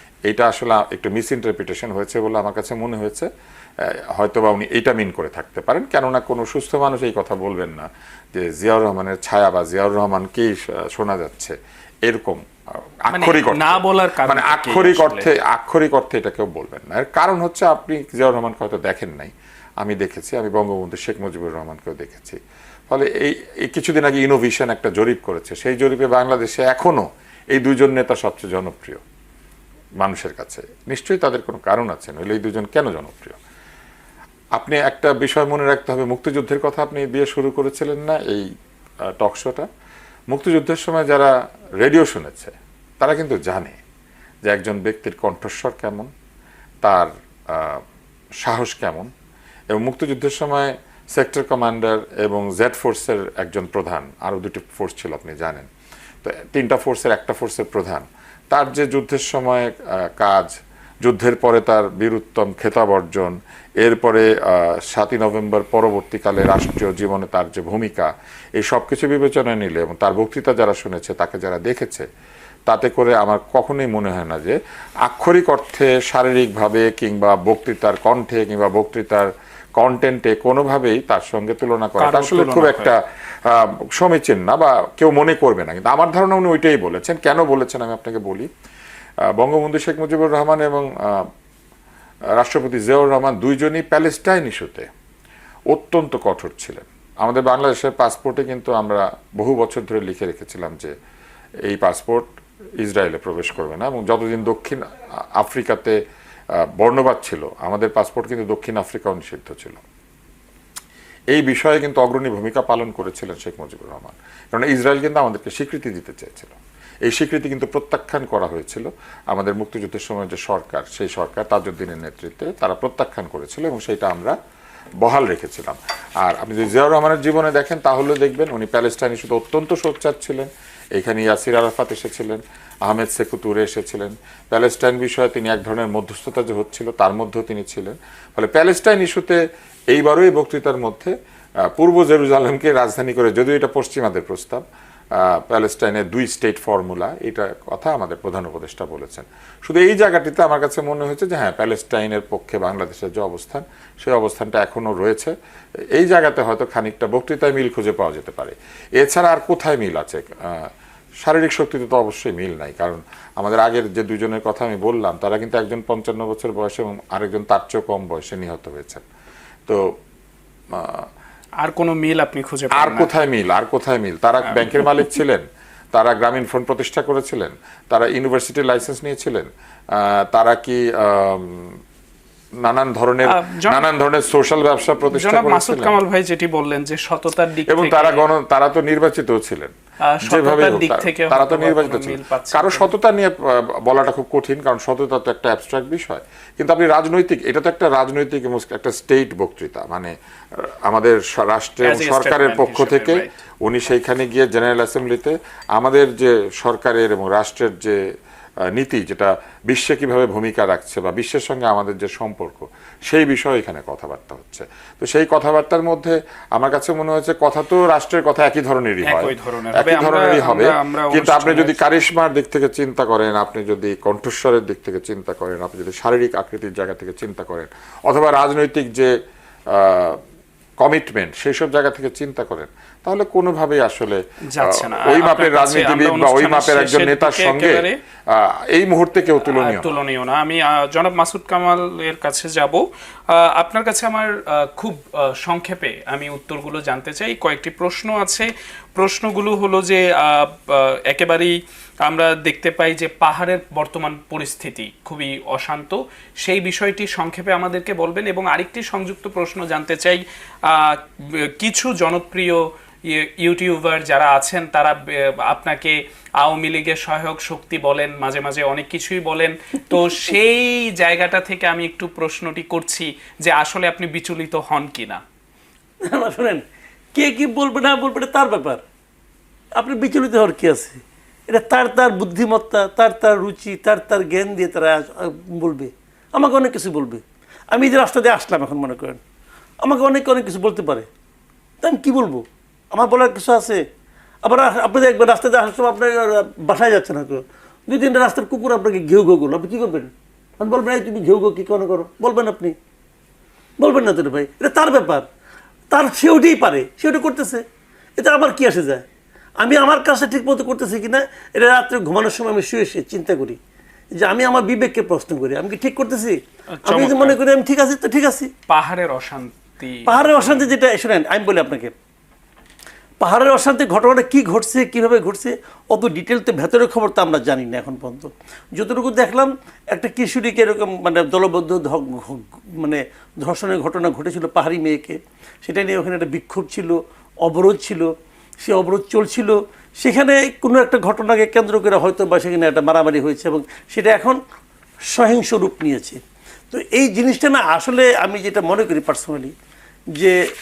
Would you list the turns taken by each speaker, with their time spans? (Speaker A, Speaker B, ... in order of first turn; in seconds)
Speaker A: 0.3-3.3, 3.8-22.4, 22.9-29.0, 30.0-33.4, 34.6-38.5, 39.1-39.7, 40.3-43.8, 44.5-46.1, 46.8-47.8, 48.4-49.1, 49.7-55.7, 56.2-60.5, 61.0-72.0, 72.7-88.5, 89.3-91.3, 92.4-94.9, 95.7-100.9, 101.7-104.8, 105.4-106.0, 106.6-109.8, 111.3-124.3, 125.0-141.1, 141.7-144.6, 145.2-155.3, 155.9-160.7, 161.2-169.0, 170.7-171.1, 172.7-181.8, 182.6-185.9, 187.7-189.7, 190.2-208.0, 208.7-229.1, 229.7-230.2, 230.8-239.9
Speaker B: 13.1-15.3, 82.0-82.9, 171.6-173.1, 174.4-175.1, 183.3-183.9, 185.1-188.2, 190.0-192.9, 201.8-203.3, 219.0-221.8, 234.5-238.0, 239.4-275.2, 316.7-317.4, 318.7-320.7
Speaker C: 276.0-276.6, 277.1-278.8, 279.8-289.2, 289.8-291.1, 291.8-293.8, 294.4-302.7, 303.8-305.2, 305.9-307.6, 308.2-309.0, 309.6-313.6, 314.1-318.5, 320.1-321.9, 323.2-338.1, 338.6-344.4, 345.1-346.2, 346.7-349.5